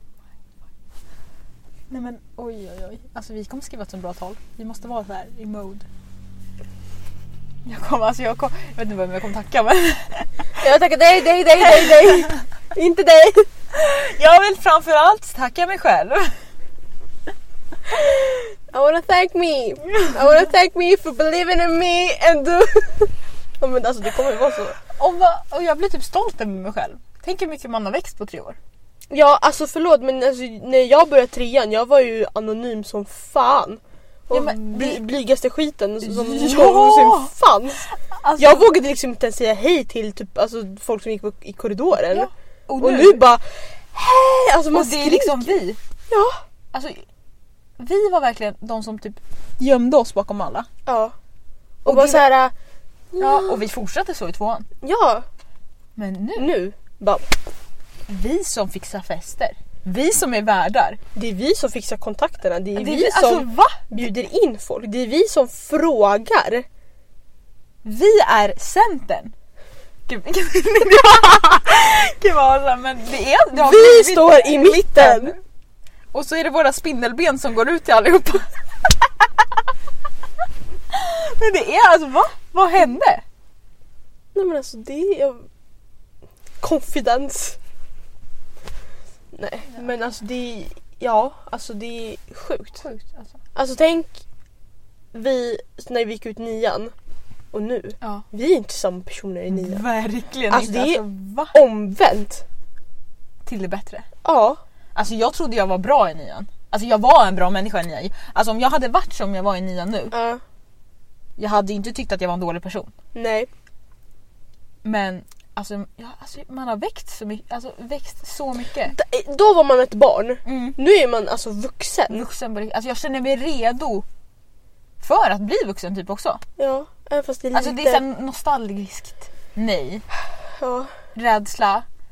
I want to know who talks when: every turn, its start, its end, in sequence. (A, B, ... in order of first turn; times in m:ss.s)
0:01.9-0:05.9 A
0:07.6-0:10.5 A
0:10.6-0:13.5 B
0:11.6-0:12.4 A
0:13.7-0:16.4 A
0:18.0-0:24.8 B
0:25.0-0:28.6 A
0:29.1-0:46.4 B
0:34.3-0:35.0 A
0:36.0-0:37.3 A
0:38.0-0:38.7 A
0:42.1-0:43.2 A
0:44.7-0:45.8 A
0:46.7-0:47.0 A
0:47.8-0:50.7 A
0:50.9-0:51.2 B
0:51.8-0:52.2 A
0:51.8-0:52.5 B
0:53.1-0:53.6 B
0:53.2-0:54.7 A
0:54.8-0:55.3 B
0:56.0-0:56.5 A
0:56.4-0:57.3 B
0:58.1-1:01.0 A
1:01.2-1:06.6 B
1:02.8-1:03.8 A
1:07.8-1:09.3 A
1:10.1-1:15.4 A
1:13.5-1:15.3 B
1:16.1-1:19.0 A
1:20.9-1:23.2 A
1:24.4-1:25.5 B
1:26.6-1:27.6 B
1:29.3-1:32.8 B
1:32.8-1:33.3 A
1:33.6-1:34.2 B
1:35.1-1:36.9 B
1:37.5-1:39.8 B
1:39.5-1:41.6 A
1:40.5-1:42.4 B
1:43.4-1:44.1 A
1:44.2-1:44.6 B
1:45.0-1:50.1 A
1:50.1-1:50.4 B
1:51.4-1:52.9 A
1:53.2-1:53.5 B
1:54.8-1:59.0 A
1:58.9-2:02.2 B
2:00.4-2:00.8 A
2:02.1-2:04.0 A
2:05.0-2:06.4 A
2:06.6-2:08.0 B
2:07.5-2:10.0 A
2:10.6-2:10.9 B
2:11.2-2:11.9 A